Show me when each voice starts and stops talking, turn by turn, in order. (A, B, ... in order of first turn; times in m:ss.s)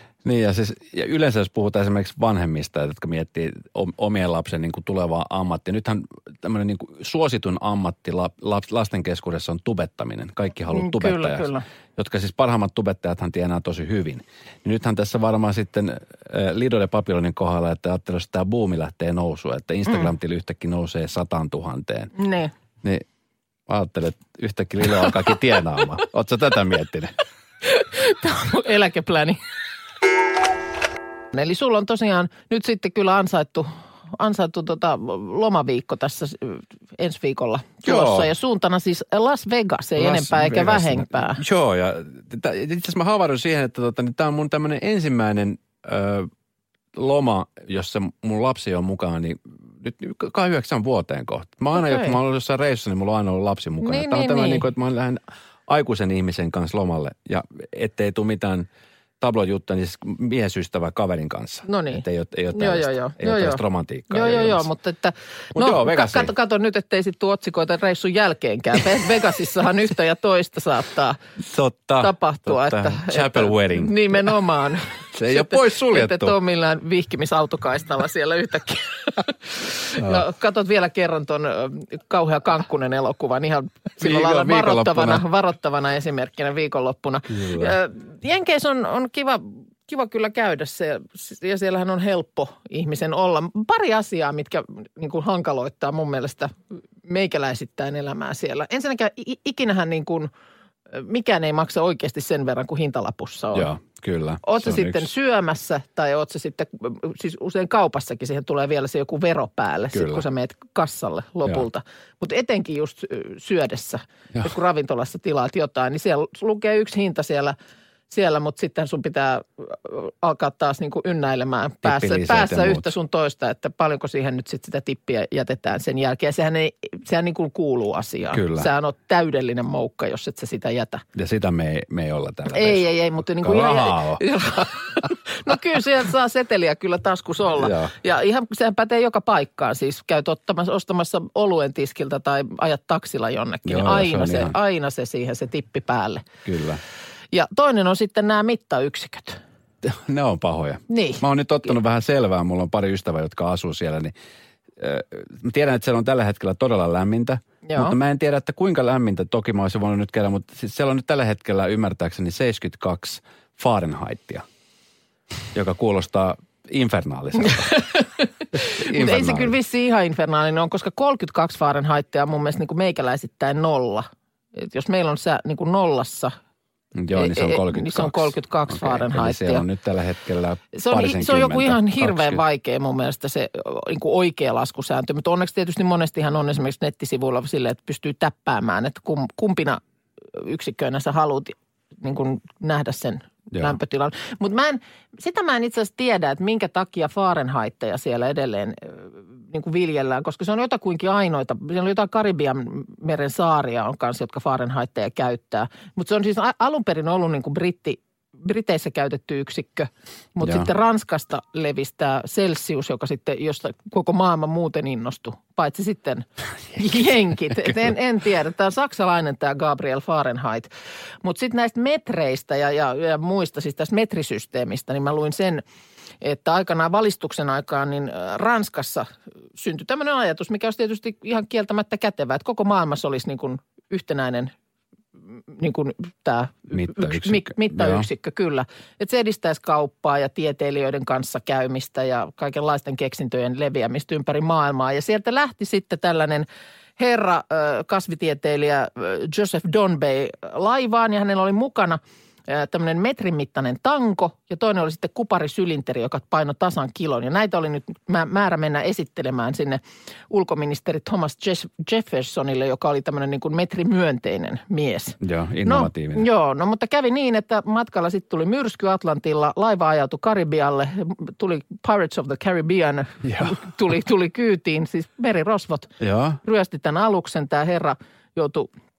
0:00.2-0:22.1 A
0:10.7-0:11.6 B
0:19.8-0:20.1 B
0:22.2-0:22.5 B
0:23.7-0:27.1 A
0:27.6-0:29.4 B
0:31.3-0:41.4 B
0:37.8-0:38.3 A
0:40.0-0:46.3 A
0:46.9-0:58.7 A
0:51.8-0:52.2 B
0:53.8-0:54.7 B
0:59.2-1:04.7 A
1:01.6-1:11.2 B
1:05.5-1:06.3 A
1:11.4-1:14.3 A
1:12.0-1:36.5 B
1:15.1-1:16.4 A
1:20.0-1:20.2 A
1:24.0-1:25.2 A
1:27.3-1:27.8 A
1:37.0-1:40.3 B
1:40.9-1:43.7 B
1:43.5-1:45.0 A
1:44.4-1:57.6 B
1:49.9-1:50.2 A
1:58.1-2:11.0 B
2:01.8-2:02.9 A
2:08.3-2:08.7 A
2:11.1-2:12.8 A
2:12.5-2:26.2 B
2:13.4-2:14.2 A
2:17.6-2:17.9 A
2:23.6-2:24.5 A
2:26.4-2:26.8 A
2:27.3-2:29.4 B
2:29.8-2:34.1 A
2:30.9-2:31.2 B
2:34.8-2:44.4 A
2:37.6-2:38.0 B
2:45.5-2:47.8 A
2:47.4-2:56.3 B
2:48.5-2:49.5 A
2:57.0-3:02.4 A
2:57.1-2:59.6 B
3:00.7-3:09.8 B
3:10.3-3:40.7 B
3:41.2-3:45.6 B
3:46.2-3:54.5 B
3:55.5-4:06.5 B
3:56.7-3:58.1 A
4:07.0-4:38.7 B
4:25.2-4:26.3 A
4:33.2-4:33.5 A
4:36.0-4:36.4 A